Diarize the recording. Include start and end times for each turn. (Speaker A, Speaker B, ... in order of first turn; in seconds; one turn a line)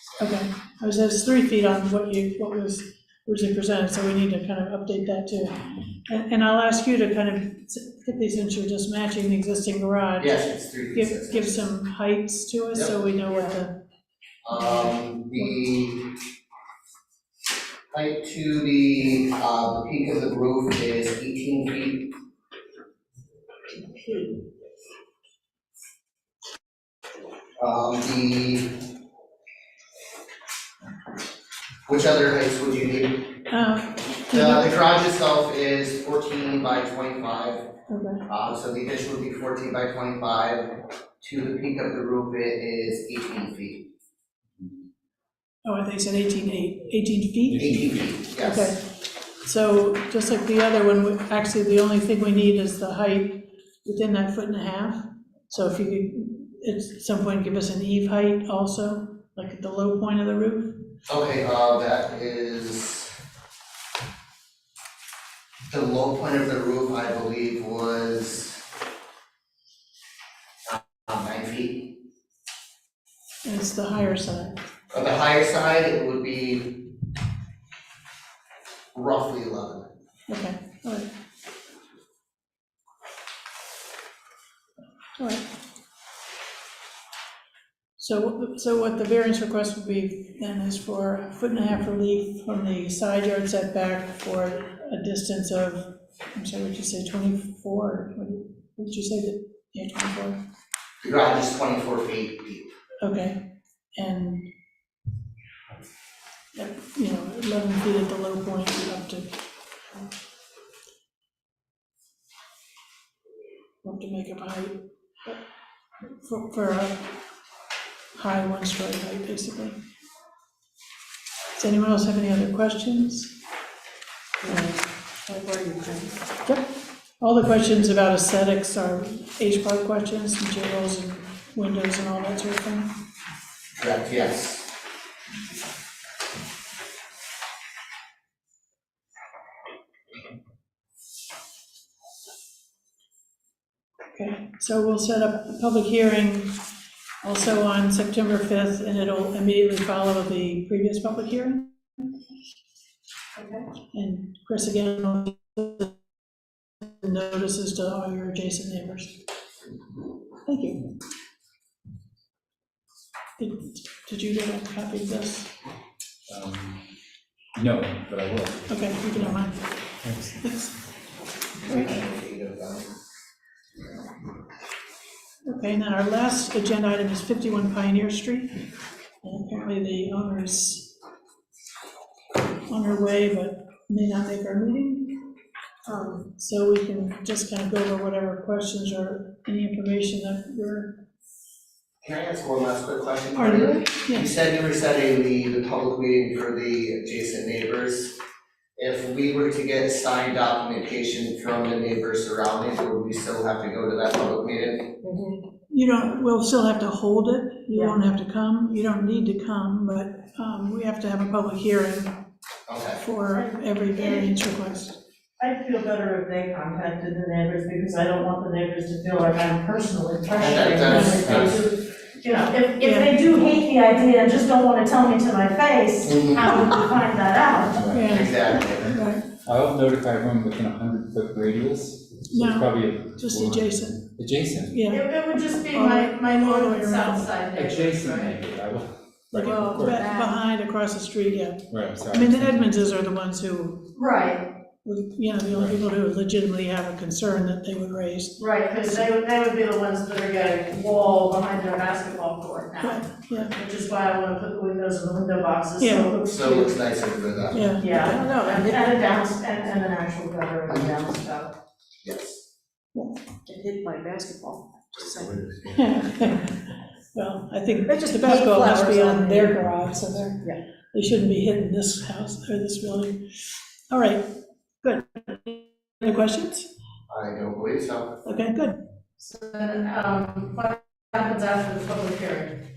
Speaker A: 0.2-13.8
Speaker B: 10.2-11.6
Speaker B: 14.4-16.1
Speaker A: 14.5-15.5
Speaker B: 17.9-22.1
Speaker B: 27.6-28.7
Speaker B: 31.9-33.3
Speaker A: 33.5-34.7
Speaker B: 34.3-37.6
Speaker A: 37.9-38.2
Speaker B: 38.3-40.7
Speaker B: 41.2-43.9
Speaker A: 45.6-47.7
Speaker C: 47.5-47.9
Speaker B: 47.6-48.8
Speaker A: 48.4-48.9
Speaker A: 49.4-60.8
Speaker B: 61.1-63.1
Speaker B: 65.7-68.6
Speaker B: 70.7-71.9
Speaker A: 73.4-74.6
Speaker B: 74.9-76.8
Speaker B: 78.9-79.9
Speaker A: 80.3-81.1
Speaker A: 85.2-85.5
Speaker A: 88.0-100.4
Speaker B: 101.0-102.7
Speaker A: 103.0-104.5
Speaker A: 106.5-109.4
Speaker A: 113.8-115.4
Speaker A: 116.1-117.1
Speaker A: 118.2-119.8
Speaker A: 121.5-123.3
Speaker D: 124.5-124.8
Speaker D: 125.3-126.1
Speaker E: 125.3-125.7
Speaker A: 127.2-132.9
Speaker B: 133.8-134.7
Speaker A: 144.1-146.6
Speaker A: 147.2-152.1
Speaker D: 153.4-153.7
Speaker A: 153.8-156.0
Speaker A: 156.8-159.2
Speaker A: 160.4-160.9
Speaker A: 163.4-165.5
Speaker C: 166.3-166.9
Speaker C: 167.6-169.5
Speaker A: 168.7-170.9
Speaker C: 170.0-170.6
Speaker B: 171.6-172.9
Speaker A: 171.7-172.0
Speaker A: 175.4-178.6
Speaker A: 179.2-180.9
Speaker A: 182.7-185.2
Speaker D: 185.9-186.1
Speaker A: 186.2-191.0
Speaker B: 192.0-198.2
Speaker A: 193.4-194.3
Speaker B: 198.8-205.0
Speaker E: 205.0-205.4
Speaker A: 205.7-212.2
Speaker B: 212.7-213.0
Speaker A: 213.0-215.0
Speaker D: 213.3-214.4
Speaker D: 215.4-227.8
Speaker B: 220.4-221.5
Speaker A: 220.9-221.3
Speaker C: 221.3-221.5
Speaker A: 222.8-223.2
Speaker B: 226.1-226.6
Speaker C: 227.8-234.9
Speaker A: 227.9-229.2
Speaker B: 228.1-228.9
Speaker A: 232.3-234.1
Speaker A: 234.7-235.1
Speaker D: 234.9-238.4
Speaker A: 235.7-237.3
Speaker C: 237.6-240.0
Speaker A: 239.3-243.9
Speaker E: 239.4-240.4
Speaker C: 241.7-242.6
Speaker D: 244.0-244.4
Speaker A: 244.8-248.4
Speaker D: 248.4-256.7
Speaker A: 252.8-253.6
Speaker A: 255.8-256.2
Speaker B: 256.3-257.7
Speaker A: 257.5-258.3
Speaker D: 257.8-261.5
Speaker E: 258.0-258.8
Speaker B: 262.0-262.4
Speaker E: 263.5-265.4
Speaker B: 265.2-265.8
Speaker A: 265.7-276.7
Speaker E: 267.9-269.5
Speaker B: 277.1-278.2
Speaker A: 278.2-278.8
Speaker D: 279.2-282.6